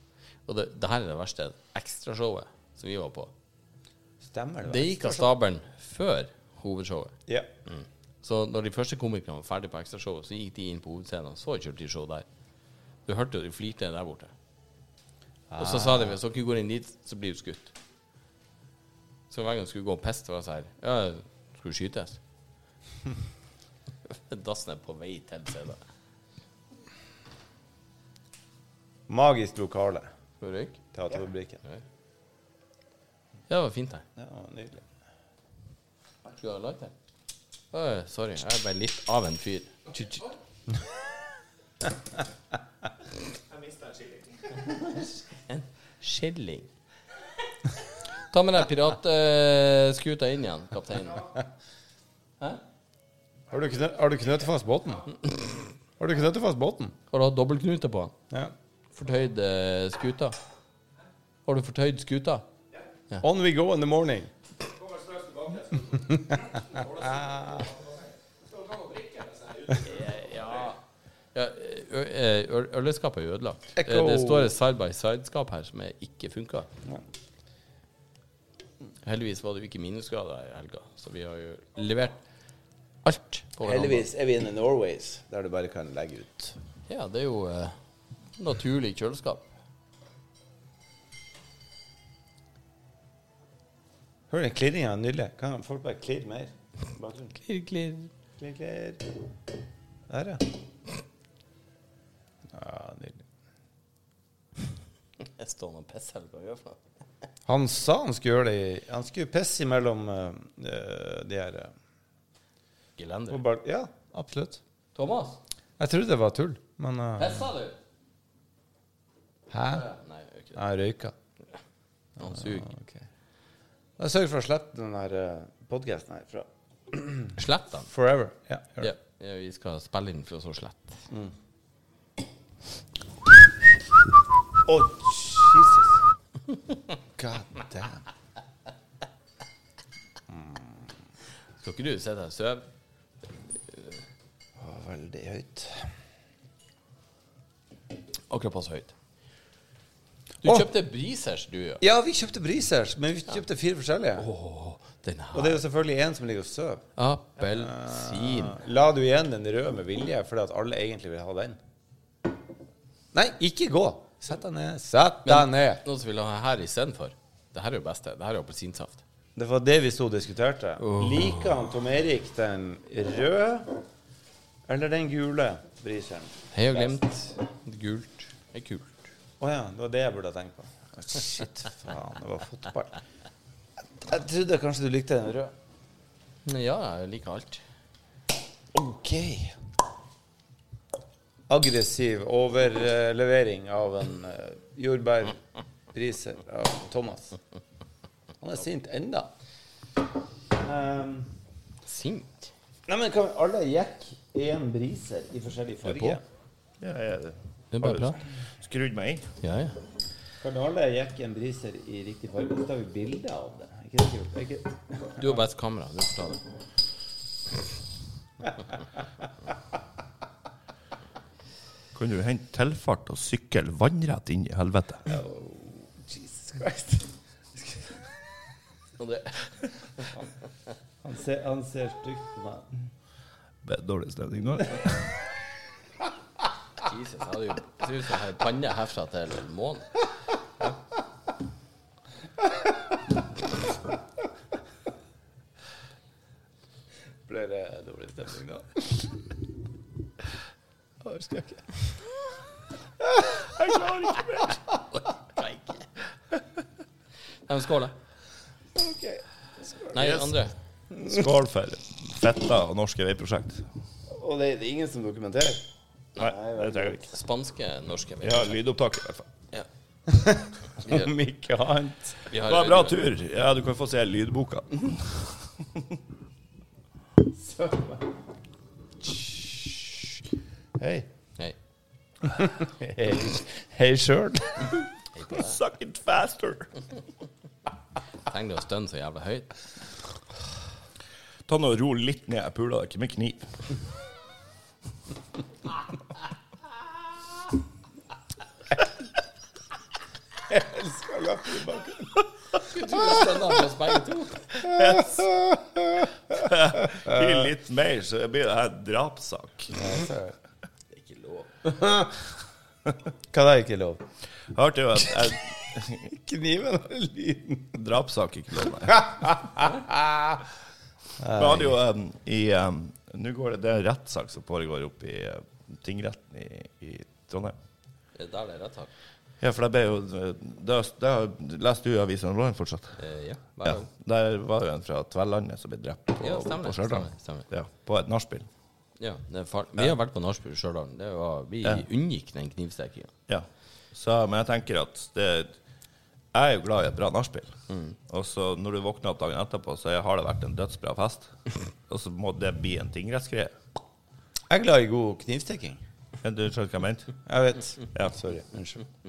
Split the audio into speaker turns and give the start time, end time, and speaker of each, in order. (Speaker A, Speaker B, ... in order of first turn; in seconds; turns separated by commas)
Speaker A: 0.5-3.3, Speaker B: 4.2-5.3, Speaker A: 4.6-7.1, Speaker A: 7.7-12.2, Speaker A: 13.1-14.3, Speaker B: 15.5-16.2, Speaker A: 15.6-17.7, Speaker A: 19.3-22.2, Speaker A: 24.1-25.8, Speaker B: 29.1-30.1, Speaker A: 30.4-30.8, Speaker B: 30.9-31.6, Speaker A: 33.5-34.0, Speaker B: 34.1-34.8, Speaker A: 36.2-36.9, Speaker A: 37.7-39.7, Speaker B: 39.9-40.2, Speaker C: 43.5-44.2, Speaker A: 45.3-46.7, Speaker A: 48.3-51.3, Speaker B: 53.5-55.0, Speaker B: 56.0-57.0, Speaker A: 57.1-58.1, Speaker A: 58.9-60.4, Speaker A: 61.5-62.4, Speaker B: 63.2-64.3, Speaker B: 65.7-67.8, Speaker A: 69.8-70.8, Speaker A: 71.3-76.7, Speaker B: 73.8-74.5, Speaker A: 79.0-82.2, Speaker A: 83.0-84.1, Speaker B: 83.6-86.6, Speaker A: 86.9-87.8, Speaker A: 88.3-89.5, Speaker B: 94.3-97.4, Speaker A: 97.4-98.1, Speaker B: 98.4-99.0, Speaker B: 100.1-100.5, Speaker B: 102.5-103.2, Speaker A: 105.2-106.8, Speaker B: 107.5-111.7, Speaker A: 113.0-113.4, Speaker B: 113.3-114.6, Speaker A: 114.9-115.4, Speaker B: 115.8-117.5, Speaker A: 117.2-117.8, Speaker B: 119.5-119.9, Speaker A: 119.7-120.6, Speaker B: 120.5-121.1, Speaker A: 122.2-122.7, Speaker B: 122.3-123.0, Speaker B: 124.0-127.3, Speaker A: 127.3-127.9, Speaker B: 127.8-128.9, Speaker A: 128.8-131.0, Speaker B: 134.6-136.0, Speaker B: 137.2-138.0, Speaker B: 140.3-140.9, Speaker A: 141.6-142.7, Speaker B: 144.6-145.9, Speaker A: 148.3-148.9, Speaker A: 150.4-151.8, Speaker B: 151.8-154.3, Speaker A: 154.2-155.6, Speaker B: 155.3-156.8, Speaker A: 157.0-158.6, Speaker B: 157.5-161.6, Speaker B: 163.1-165.8, Speaker A: 165.2-169.0, Speaker B: 169.3-173.8, Speaker A: 170.8-171.4, Speaker B: 174.7-177.0, Speaker A: 176.5-179.0, Speaker B: 179.4-183.0, Speaker B: 183.9-185.5, Speaker A: 186.4-187.6, Speaker B: 188.7-189.6, Speaker B: 191.5-195.4, Speaker B: 195.9-197.4, Speaker B: 198.4-199.3, Speaker B: 200.5-201.3, Speaker A: 201.8-202.5, Speaker B: 202.9-206.2, Speaker A: 205.8-206.2, Speaker C: 206.8-209.3, Speaker A: 207.7-208.2, Speaker A: 209.4-209.8, Speaker B: 210.4-215.2, Speaker A: 215.2-216.4, Speaker C: 221.9-225.1, Speaker B: 225.1-227.8, Speaker A: 229.0-229.4, Speaker B: 231.0-232.8, Speaker C: 233.6-235.1, Speaker A: 236.8-239.9, Speaker B: 247.3-249.2, Speaker B: 251.0-252.0, Speaker B: 253.0-253.4, Speaker C: 253.6-254.6, Speaker A: 255.3-255.8, Speaker A: 257.5-257.9, Speaker B: 258.7-260.2, Speaker A: 259.9-260.5, Speaker B: 260.9-261.2, Speaker C: 261.0-263.6, Speaker B: 264.1-265.6, Speaker B: 266.2-267.1, Speaker C: 266.2-267.0, Speaker A: 267.0-268.6, Speaker C: 268.2-269.3, Speaker B: 270.1-272.2, Speaker A: 270.8-271.1, Speaker A: 272.2-273.0, Speaker C: 272.4-275.4, Speaker B: 277.3-278.1, Speaker B: 279.0-279.7, Speaker B: 280.8-281.1, Speaker B: 282.2-284.8, Speaker A: 285.1-285.6, Speaker C: 285.3-286.7, Speaker A: 288.3-289.5, Speaker C: 291.5-293.6, Speaker B: 300.5-302.2, Speaker A: 302.6-304.7, Speaker B: 304.6-306.2, Speaker C: 306.3-309.8, Speaker B: 307.1-307.4, Speaker B: 309.7-310.3, Speaker A: 310.9-311.7, Speaker B: 311.6-312.1, Speaker B: 313.3-314.0, Speaker C: 314.5-316.2, Speaker B: 316.2-317.8, Speaker C: 317.7-319.3, Speaker B: 318.9-320.4, Speaker B: 321.2-321.8, Speaker C: 321.4-327.6, Speaker A: 328.1-328.9, Speaker C: 329.4-333.0, Speaker A: 333.0-333.9, Speaker C: 333.6-338.5, Speaker A: 336.2-337.4, Speaker A: 339.0-343.1, Speaker C: 343.3-345.5, Speaker C: 346.3-353.5, Speaker A: 347.7-347.9, Speaker B: 354.5-355.8, Speaker C: 356.2-357.2, Speaker B: 357.2-358.8